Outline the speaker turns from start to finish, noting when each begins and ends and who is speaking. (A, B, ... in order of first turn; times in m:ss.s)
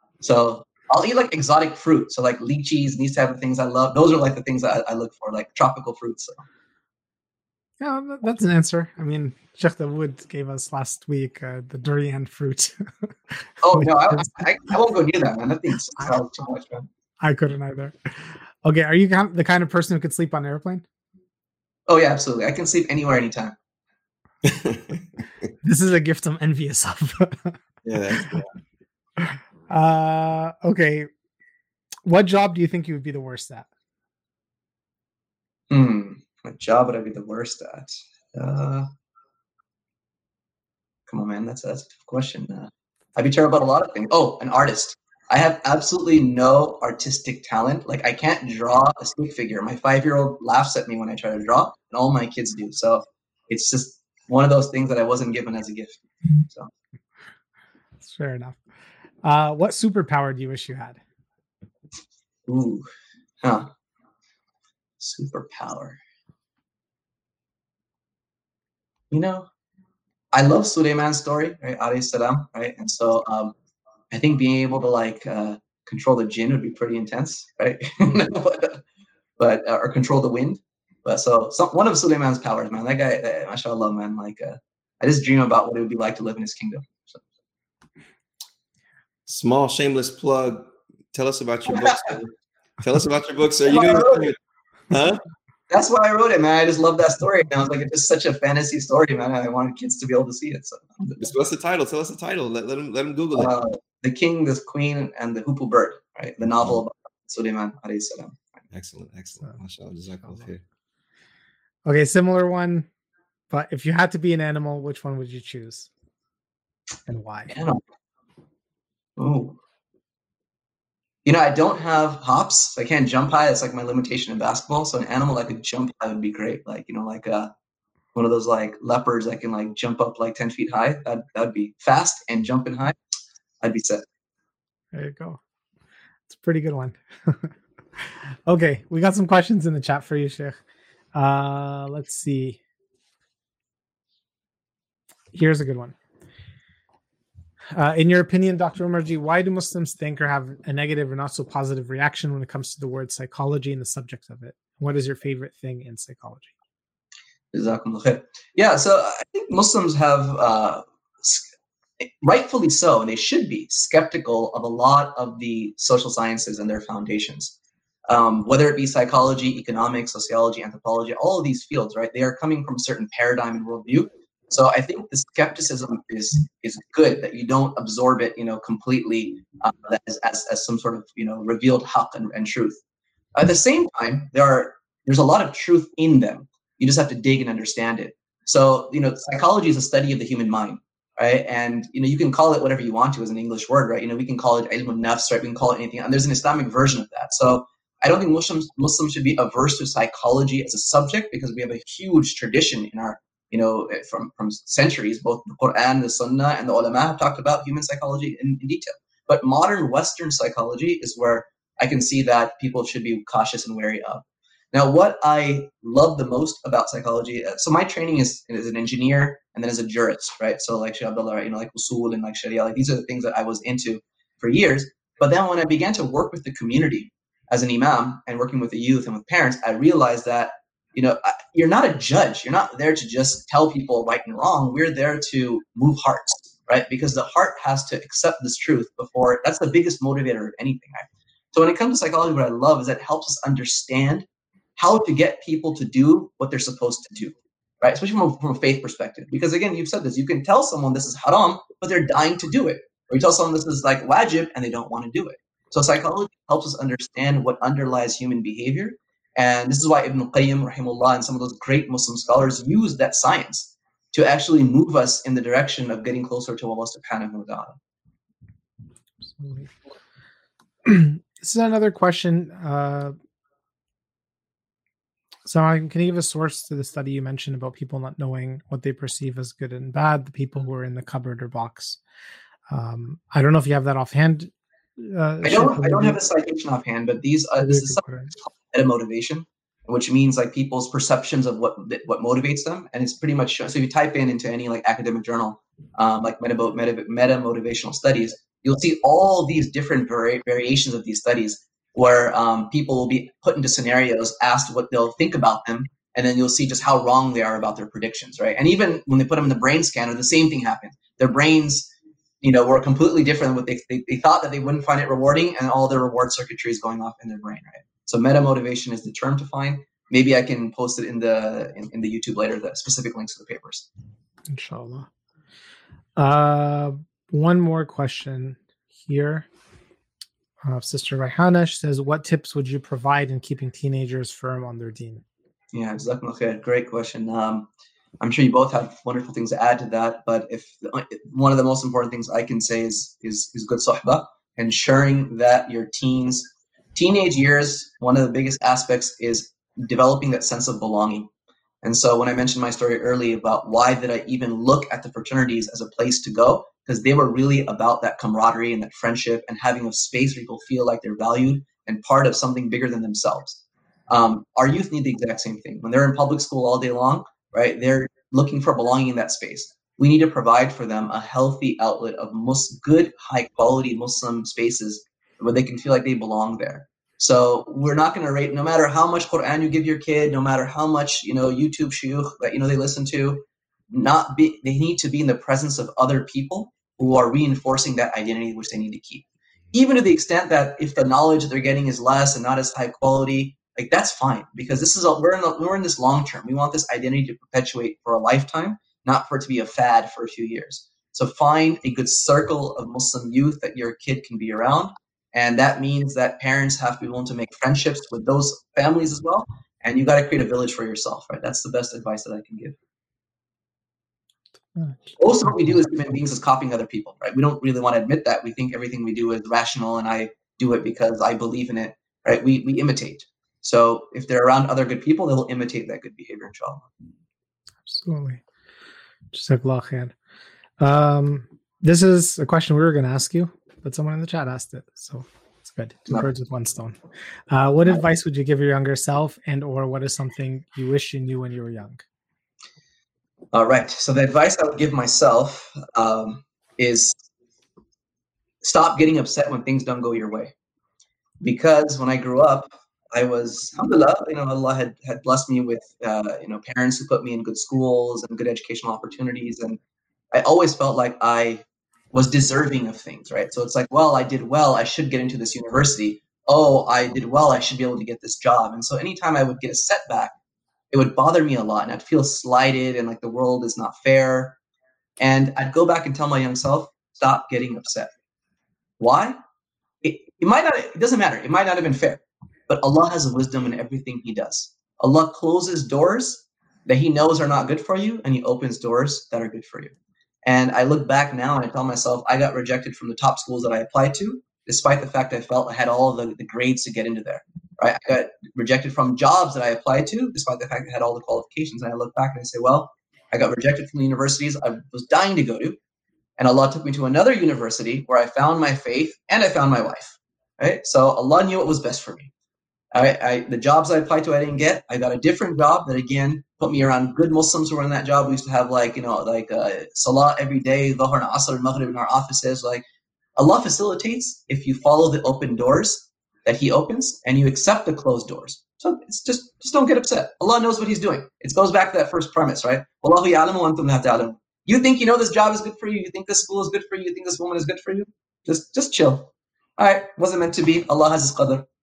0:00.2-0:06.4 A
0:07.8-0:12.8 B
0:13.6-0:16.8 A
0:13.7-0:14.3 B
0:17.2-0:20.8 B
0:21.9-0:23.5 A
0:24.4-0:25.0 C
0:25.6-0:27.6 B
0:27.8-0:28.5 C
0:29.2-0:31.1 B
0:32.0-0:33.7 B
0:35.7-0:38.9 A
0:41.1-0:56.7 A
0:58.0-0:58.6 B
0:59.2-1:01.0 B
1:02.5-1:02.9 A
1:03.4-1:03.7 A
1:05.0-1:06.0 A
1:09.1-1:09.5 A
1:10.3-1:13.5 A
1:14.1-1:18.8 A
1:19.4-1:27.2 A
1:29.3-1:34.4 C
1:33.6-1:34.3 A
1:34.9-1:35.2 C
1:35.7-1:41.2 A
1:41.2-1:43.5 C
1:43.4-1:48.4 A
1:48.7-1:50.6 C
1:51.8-1:52.9 B
1:53.5-1:55.9 B
1:57.1-1:57.5 B
1:57.5-1:57.8 A
1:59.2-1:59.6 A
2:01.2-2:07.5 A
2:08.1-2:13.0 A
2:13.6-2:14.0 A
2:14.9-2:15.4 B
2:16.3-2:20.6 B
2:21.1-2:22.6 B
2:25.3-2:26.0 B
2:27.7-2:36.5 B
2:37.5-2:41.5 A
2:42.0-2:47.5 A
2:48.1-3:02.8 A
3:03.3-4:27.8 A
4:29.4-4:29.7 B
4:30.8-4:33.1 B
4:35.4-4:42.0 B
4:42.7-4:46.2 B
4:45.4-5:11.9 A
4:47.6-4:48.3 B
5:12.4-5:23.9 A
5:24.5-5:25.1 B
5:26.2-5:29.5 B
5:30.6-5:35.2 B
5:35.7-5:37.7 A
5:38.2-5:51.3 A
5:51.8-6:52.8 A
6:54.8-6:55.2 B
6:55.2-7:06.9 A
7:07.8-7:08.4 B
7:09.3-7:10.1 B
7:10.8-7:17.0 B
7:17.5-7:22.0 B
7:23.5-7:27.2 A
7:28.6-7:30.5 A
7:31.4-7:39.8 A
7:40.3-7:50.3 A
7:50.9-7:54.6 A
7:55.2-7:58.1 A
7:59.0-7:59.4 A
8:00.0-8:25.8 A
8:26.4-8:32.3 A
8:32.9-8:42.8 A
8:43.4-9:01.6 A